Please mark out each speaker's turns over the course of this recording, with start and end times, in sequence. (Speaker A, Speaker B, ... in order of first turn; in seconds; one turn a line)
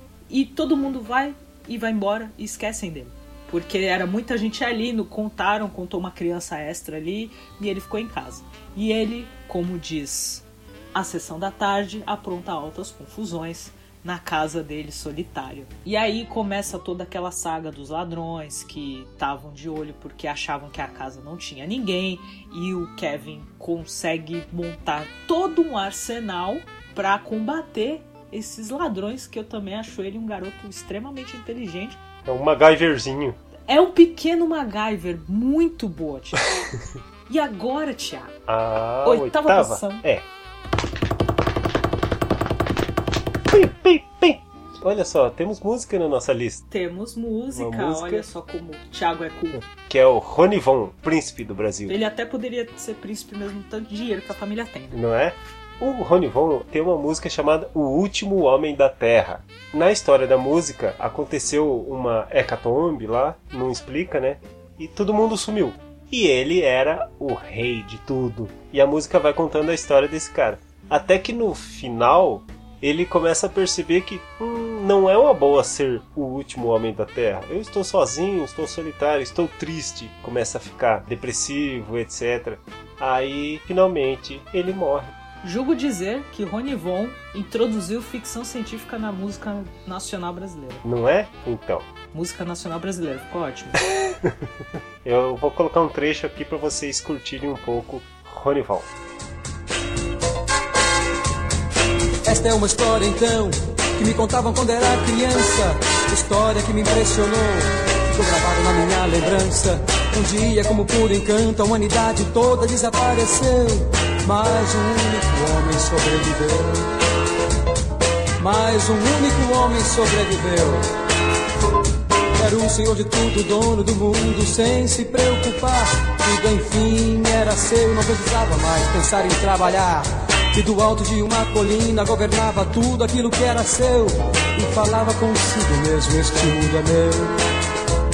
Speaker A: 0.3-32.0
Speaker B: 32.3-33.4
Speaker A: 33.7-36.4
Speaker A: 37.3-38.3
Speaker B: 38.5-40.3
Speaker A: 39.0-40.0
Speaker B: 43.5-46.6
Speaker A: 46.7-49.6
Speaker B: 47.5-48.2
Speaker B: 49.7-52.0
Speaker A: 51.9-55.0
Speaker B: 54.9-85.1
Speaker A: 85.4-90.8
Speaker B: 90.8-91.8
Speaker A: 92.1-93.8
Speaker B: 95.0-98.9
Speaker C: 102.2-116.9
Speaker C: 118.4-120.8
Speaker C: 122.4-137.3